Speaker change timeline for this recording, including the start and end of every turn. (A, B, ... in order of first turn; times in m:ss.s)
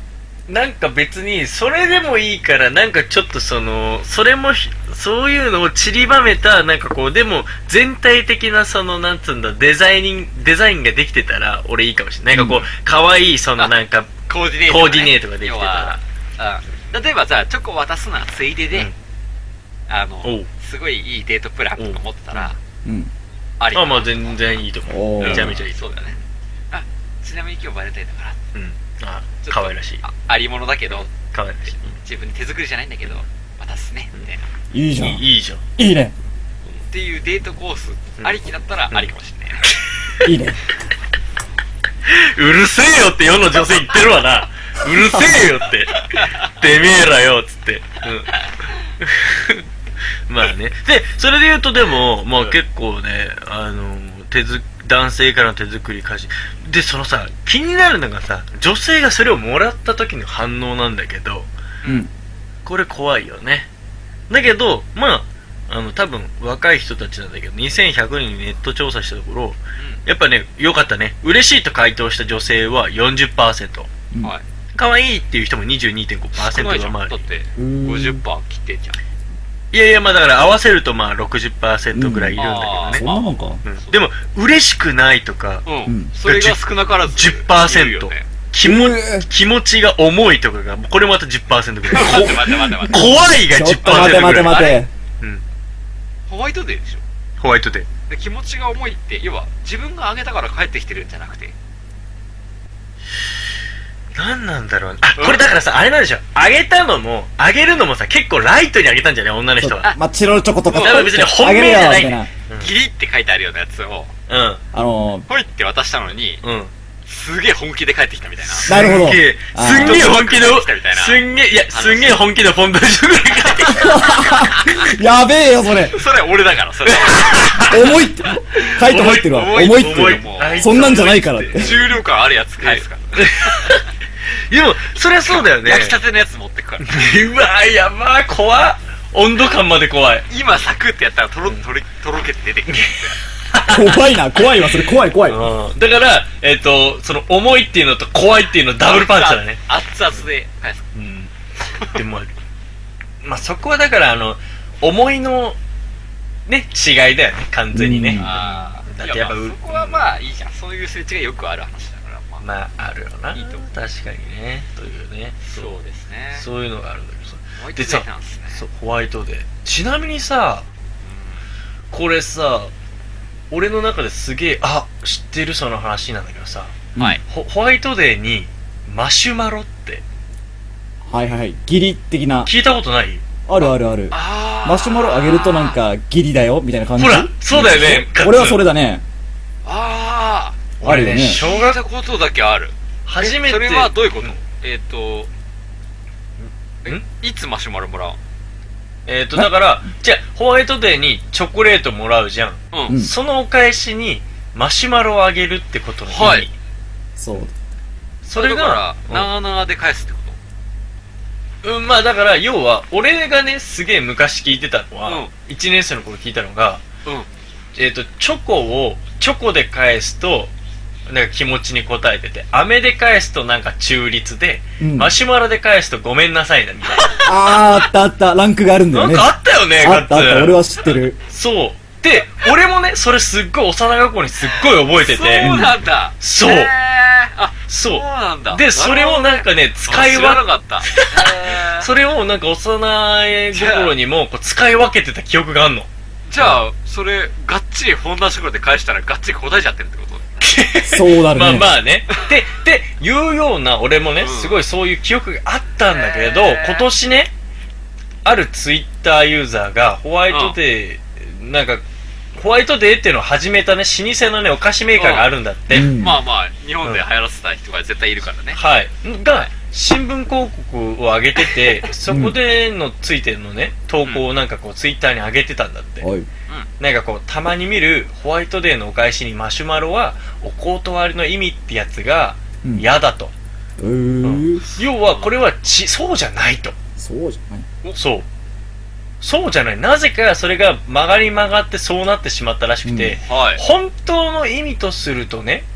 0:00.5-0:16.0 A
0:12.3-0:12.6 B
0:14.3-0:18.9 C
0:19.9-0:22.6 C
0:20.2-0:20.5 A
0:21.8-0:22.5 A
0:22.8-0:23.1 B
0:23.6-0:24.4 C
0:23.7-0:25.7 A
0:24.9-0:25.5 B
0:25.2-0:26.2 C
0:26.7-0:28.4 C
0:28.5-0:30.0 A
0:29.4-0:31.1 C
0:31.0-0:31.9 A
0:31.6-0:34.5 C
0:34.7-0:35.2 B
0:35.0-0:35.6 A
0:35.8-0:36.1 B
0:36.9-0:39.7 C
0:39.6-0:40.3 A
0:40.2-0:40.6 B
0:42.0-0:48.3 A
0:46.1-0:46.5 C
0:49.0-0:49.6 A
0:50.3-1:01.5 A
1:02.6-1:03.7 A
1:04.3-1:13.9 A
1:09.8-1:10.0 C
1:14.7-1:17.2 A
1:16.4-1:19.0 C
1:17.6-1:18.2 B
1:19.7-1:23.0 A
1:21.9-1:23.6 B
1:22.4-1:24.0 C
1:23.6-1:25.6 A
1:25.6-1:28.3 C
1:25.8-1:26.1 B
1:26.2-1:34.6 A
1:28.6-1:29.2 B
1:31.9-1:33.1 C
1:31.9-1:34.9 B
1:33.8-1:34.8 C
1:36.3-1:37.0 C
1:37.4-1:37.9 A
1:38.1-1:41.5 C
1:44.1-1:49.9 A
1:45.1-1:45.4 C
1:49.6-1:52.3 B
1:50.7-1:51.1 C
1:50.7-1:52.7 A
1:52.6-1:54.1 C
1:54.3-1:54.6 A
1:54.7-1:55.3 B
1:55.3-1:56.4 C
1:56.4-1:56.7 A
1:57.1-1:58.7 C
1:58.5-2:04.1 A
1:58.6-2:00.1 B
1:59.6-2:02.2 C
2:03.7-2:06.0 B
2:03.8-2:04.8 C
2:05.9-2:07.7 C
2:06.8-2:07.9 A
2:07.6-2:11.9 B
2:08.7-2:11.8 A
2:09.2-2:13.8 C
2:12.6-2:16.0 A
2:15.2-2:17.2 C
2:16.8-2:20.2 A
2:20.3-2:23.2 C
2:22.7-2:24.0 A
2:23.6-2:25.5 B
2:25.2-2:29.6 A
2:28.9-2:30.9 C
2:30.9-2:31.3 A
2:31.7-2:32.0 C
2:31.9-2:32.3 A
2:33.2-2:35.6 A
2:36.4-2:40.1 A
2:37.7-2:38.4 B
2:38.2-2:42.4 C
2:42.4-2:45.7 A
2:43.3-2:43.7 C
2:45.4-2:46.4 C
2:46.3-2:50.7 A
2:47.6-2:48.6 C
2:51.0-2:51.4 C
2:51.9-2:52.7 A
2:53.5-3:00.0 A
3:01.1-3:02.5 B
3:02.4-3:03.2 A
3:03.5-3:09.0 B
3:04.1-3:05.8 C
3:07.0-3:08.6 A
3:09.6-3:15.3 C
3:10.8-3:11.8 A
3:10.8-3:11.4 B
3:13.0-3:14.3 A
3:16.4-3:17.0 A
3:16.8-3:18.2 C
3:19.0-3:26.5 A
3:22.7-3:23.0 C
3:26.1-3:26.5 C
3:27.2-3:27.5 B
3:28.2-3:29.3 A
3:28.3-3:30.4 C
3:31.6-3:36.8 A
3:35.0-3:35.3 C
3:37.7-3:40.5 A
3:41.1-3:47.2 A
3:44.8-3:45.1 B
3:46.9-3:47.3 C
3:47.2-3:51.2 B
3:48.9-3:50.6 A
3:51.2-3:56.7 A
3:54.9-4:01.9 C
3:55.4-3:55.8 B
3:57.7-4:06.6 A
4:03.5-4:03.9 C
4:06.3-4:10.5 C
4:10.4-4:17.3 A
4:10.8-4:11.7 B
4:14.2-4:14.6 C
4:15.8-4:16.9 C
4:18.2-4:25.9 A
4:20.3-4:20.6 C
4:24.9-4:28.6 C
4:25.7-4:26.2 B
4:28.5-4:36.0 A
4:32.1-4:32.4 B
4:36.0-4:36.3 B
4:36.8-4:43.3 A
4:43.8-4:44.6 B
4:44.2-4:46.8 A
4:45.0-4:45.3 C
4:47.0-4:47.6 B
4:48.0-4:48.2 A
4:49.2-4:55.6 A
4:52.8-4:53.2 B
4:53.2-4:53.6 C